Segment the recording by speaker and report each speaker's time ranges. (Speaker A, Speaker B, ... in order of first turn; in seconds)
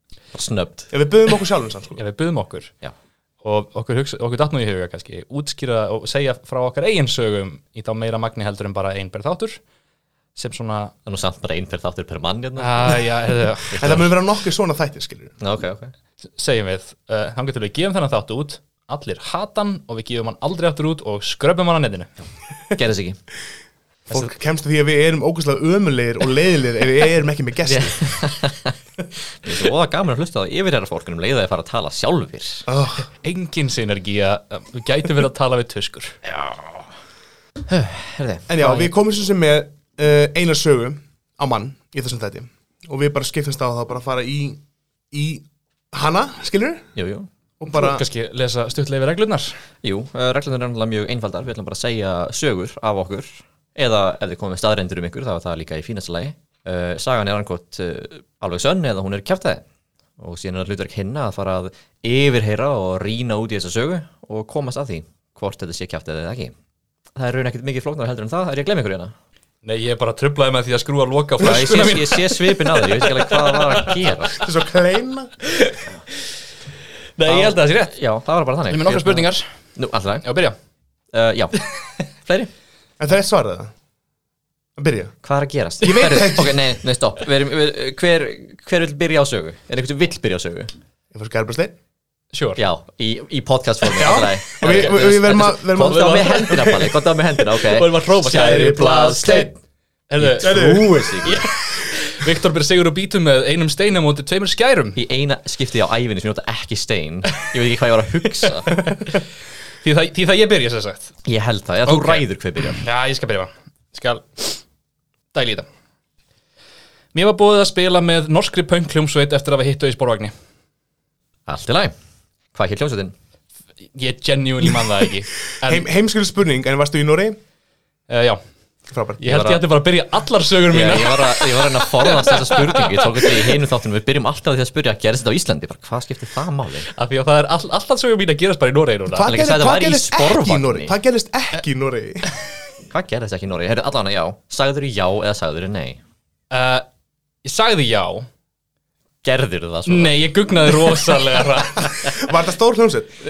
Speaker A: 0.3-0.9, 11.1-13.0, 13.7-14.0, 15.4-15.9, 22.8-23.2, 27.7-28.8, 29.3-32.7, 36.3-36.9, 37.7-38.9, 47.0-47.3, 49.8-59.6, 60.2-66.5, 67.2-69.1, 71.4-74.5, 77.2-80.3, 81.1-81.7, 82.2-82.5, 85.2-90.7, 92.6-99.5, 100.2-101.5, 105.0-108.9, 111.2-112.8, 121.5-121.9, 122.5-123.2, 129.3-129.6, 130.7-136.9, 139.2-140.9, 142.9-146.0, 149.2-150.2
Speaker B: 0.9-2.0, 13.8-15.4, 24.1-28.1, 32.7-33.1, 38.5-46.9, 47.6-48.0, 74.4-75.3, 83.0-83.7, 84.8-85.1, 85.8-86.6, 91.1-91.7, 93.9-96.8, 98.3-99.5, 100.3-101.1, 125.7-127.4, 128.9-129.4, 139.1-142.3, 152.0-153.1
Speaker C: 2.0-2.7, 3.4-9.6, 10.4-10.9, 12.6-14.1, 16.4-22.1, 33.2-36.2, 47.7-49.6, 69.6-74.3, 75.4-75.8, 77.2-78.0, 78.7-79.5, 80.2-80.6, 92.3-92.6, 94.6-96.8, 97.6-99.5, 100.1-105.0, 108.4-109.2, 109.8-111.2, 111.9-114.6, 115.3-115.7, 117.1-120.3, 123.9-125.8, 128.1-128.4, 129.2-133.6, 136.9-139.3, 146.5-146.8, 147.4-148.3, 149.9-152.2